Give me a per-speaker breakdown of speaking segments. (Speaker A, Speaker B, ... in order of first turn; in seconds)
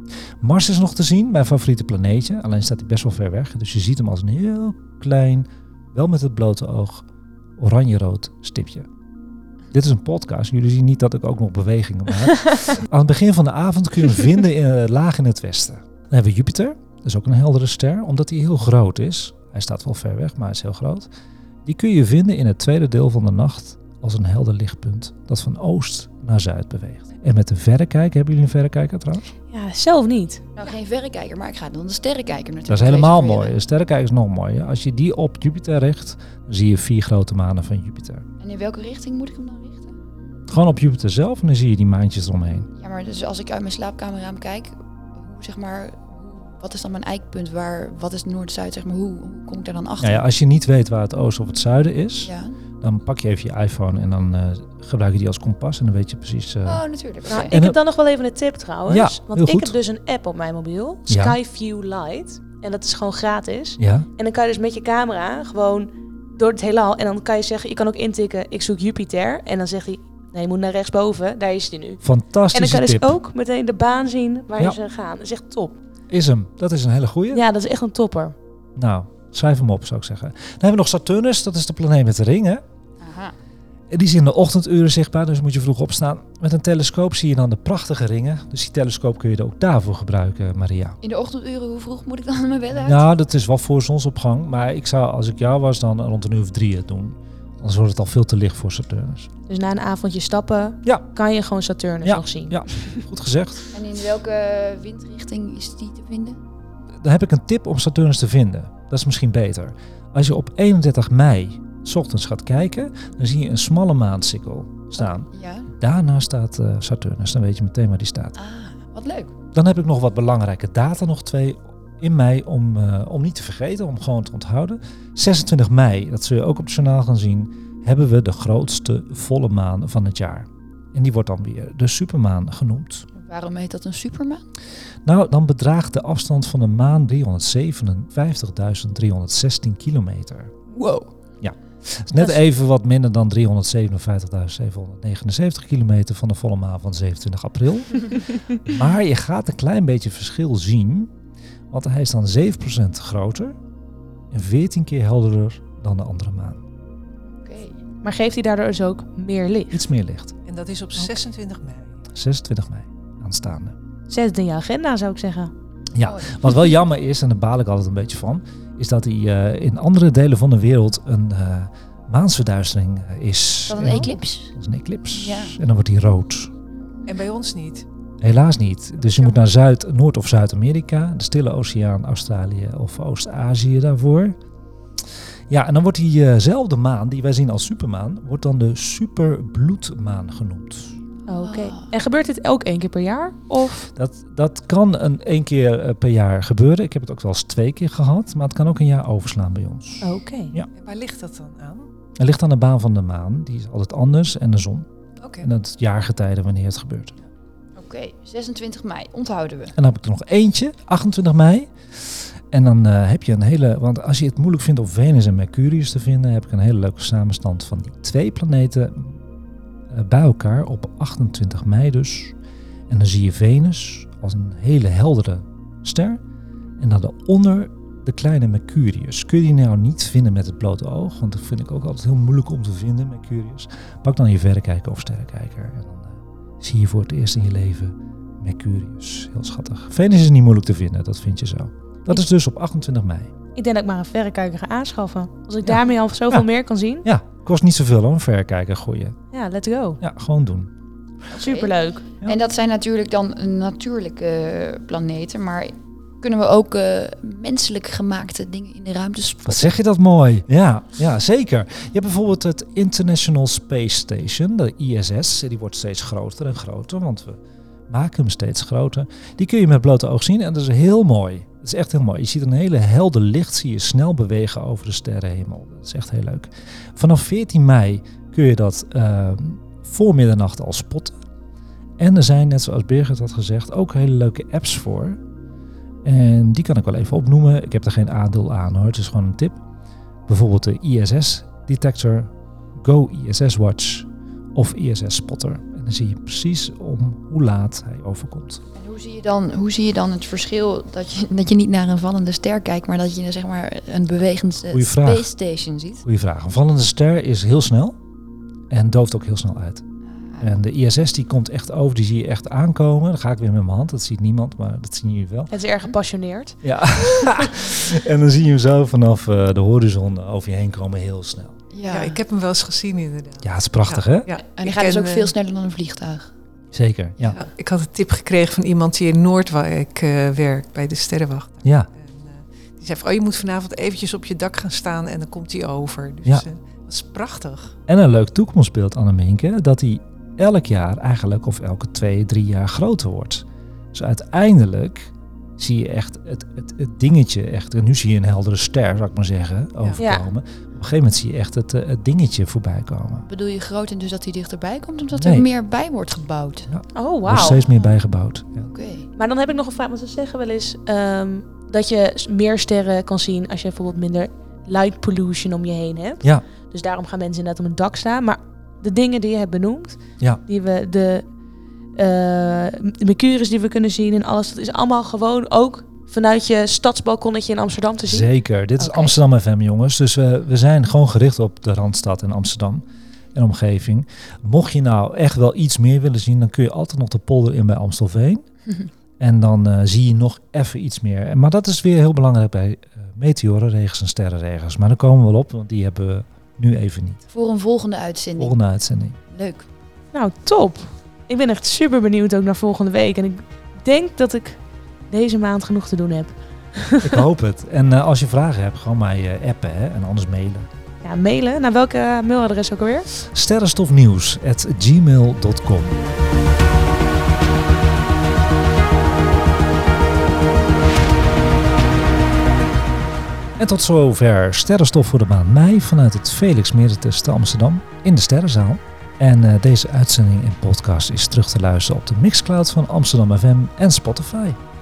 Speaker A: 0.4-7.0, 7.6-8.9, 9.7-21.1, 21.6-29.2, 32.7-38.3, 40.5-42.7, 50.0-56.8, 57.5-57.8, 58.9-59.8, 61.1-61.4, 63.8-64.1, 72.0-73.2, 76.1-77.4, 78.8-82.6, 83.9-91.0, 92.8-99.3, 102.0-103.6, 107.0-118.3, 119.5-133.1, 135.1-140.5, 141.4-151.1, 151.7-153.6, 154.3-156.6, 159.7-160.3, 162.1-163.8, 165.9-176.5, 178.2-184.4, 185.5-191.0, 193.9-200.7, 202.2-204.9, 205.4-207.1, 209.8-219.2, 219.9-222.4, 222.9-226.2, 226.8-243.3, 245.6-246.5, 247.0-249.2, 250.0-250.7, 259.5-281.2, 282.0-285.2, 286.0-289.6, 290.3-298.6, 304.7-305.3, 306.0-308.0, 308.7-309.9, 310.4-315.5, 316.6-321.6, 323.4-324.3, 326.7-327.4, 331.6-331.9, 337.9-353.3, 355.1-355.5, 356.7-358.7, 378.1-388.4, 389.2-397.2, 398.4-399.2, 407.0-410.7, 413.2-416.1, 423.6-434.6
Speaker B: 29.5-30.5, 57.3-75.8, 77.3-78.3, 99.5-103.0, 158.0-159.8, 164.1-165.5, 191.3-193.9, 200.0-200.5, 243.6-247.1, 249.3-250.0, 251.3-252.1, 315.5-317.5, 350.0-350.2, 356.9-357.6, 359.2-371.2, 372.0-378.3, 400.1-407.2, 411.0-413.1
Speaker C: 30.6-33.6, 38.4-40.0, 42.8-50.2, 52.2-52.5, 56.6-57.5, 83.0-83.3, 91.0-93.1, 103.7-106.4, 115.0-115.7, 118.4-119.3, 133.2-134.4, 140.7-141.1, 157.3-157.8, 166.0-166.6, 173.7-174.5, 175.1-175.6, 191.3-191.9, 207.8-209.8, 251.3-251.7, 252.2-259.7, 298.8-306.0, 310.1-310.6, 321.7-322.2, 324.6-326.3, 353.3-356.7, 357.4-357.9, 358.6-359.1, 397.3-398.6, 399.3-399.7
Speaker D: 160.5-162.0, 177.1-177.8, 200.8-201.9, 205.2-205.5, 321.9-325.3, 327.3-337.8